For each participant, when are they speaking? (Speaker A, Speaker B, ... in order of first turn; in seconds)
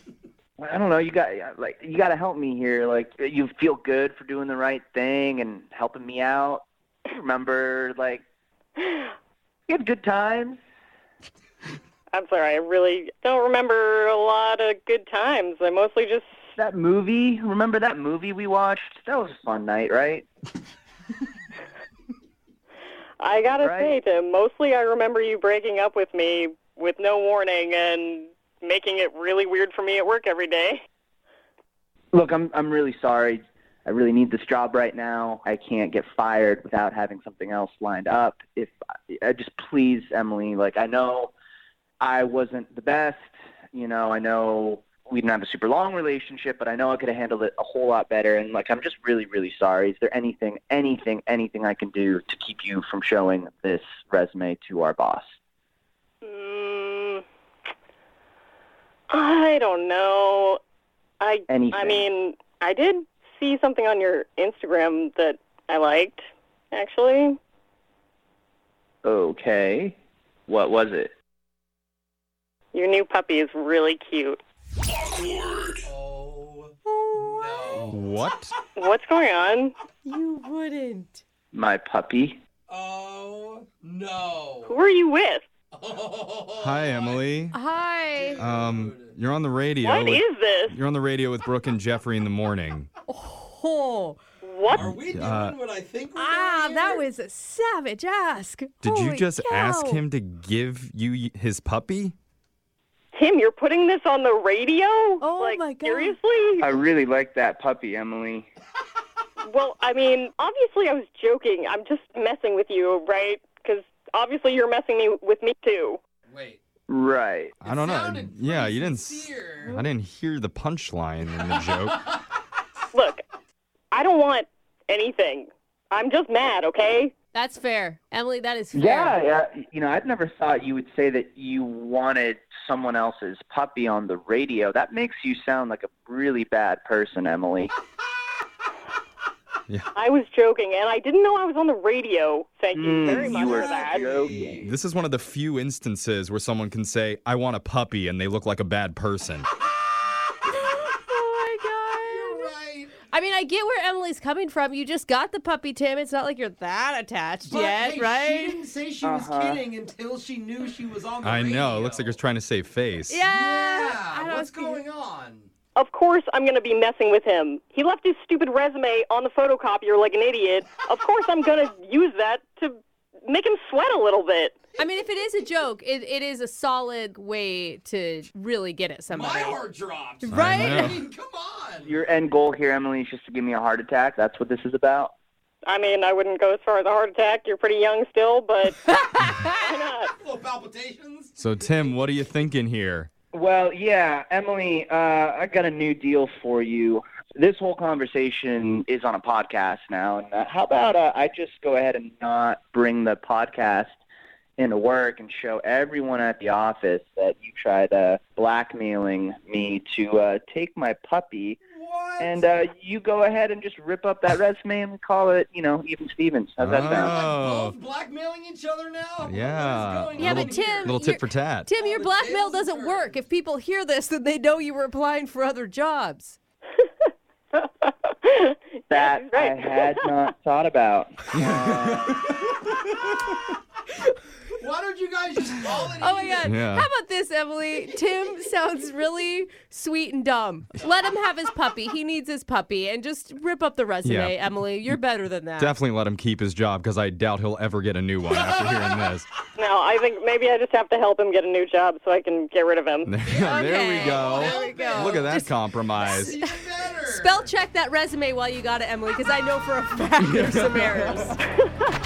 Speaker A: 0.6-8.2, 9.7-10.6, 16.6-20.2, 23.6-24.0, 32.1-41.3, 42.0-55.3, 61.5-62.0, 69.0-70.0, 70.5-71.1, 81.5-82.4, 106.6-108.5, 116.9-117.6, 128.8-137.7, 142.7-144.7, 159.0-159.7, 181.8-185.1, 193.3-203.9, 204.6-211.6, 212.2-217.2, 228.9-232.3
Speaker B: 8.8-9.1, 12.1-16.3, 23.2-30.8, 56.2-57.2, 59.1-60.6, 61.2-67.4, 72.7-74.4, 78.8-79.8, 84.7-85.5, 89.8-90.8, 94.4-94.9, 103.1-106.7, 109.4-116.0, 122.9-123.2, 123.9-127.1, 139.9-144.2, 165.8-174.6, 185.7-188.8, 189.6-190.1, 227.6-230.0, 249.6-253.1
Speaker C: 75.8-78.0, 82.7-84.8, 85.7-87.2, 88.2-89.0, 94.8-97.0, 116.3-116.6, 117.7-119.8, 143.1-144.7, 152.1-152.9, 157.5-162.0, 163.2-165.5, 179.1-181.9, 190.2-191.3, 211.7-212.4, 216.8-221.0, 221.8-223.1, 234.6-236.5, 253.2-255.3, 256.0-257.3
Speaker D: 76.8-77.9, 80.0-81.2, 87.5-88.4, 93.1-94.2, 96.2-100.0, 105.2-106.2, 127.3-129.2, 150.5-152.5, 153.1-158.6, 163.1-164.8, 174.8-179.6, 180.2-181.0, 188.8-189.7, 220.2-226.4, 236.0-245.7, 253.4-261.4
Speaker E: 77.9-78.5, 86.6-87.6, 88.4-92.9, 94.7-95.6, 98.8-102.1, 117.6-122.0, 144.4-149.5, 161.2-163.2, 180.3-181.0, 191.4-193.1, 216.6-217.8, 219.2-221.7, 231.3-232.3, 236.4-236.9, 244.0-245.0, 245.6-249.3, 253.1-256.4, 260.2-261.3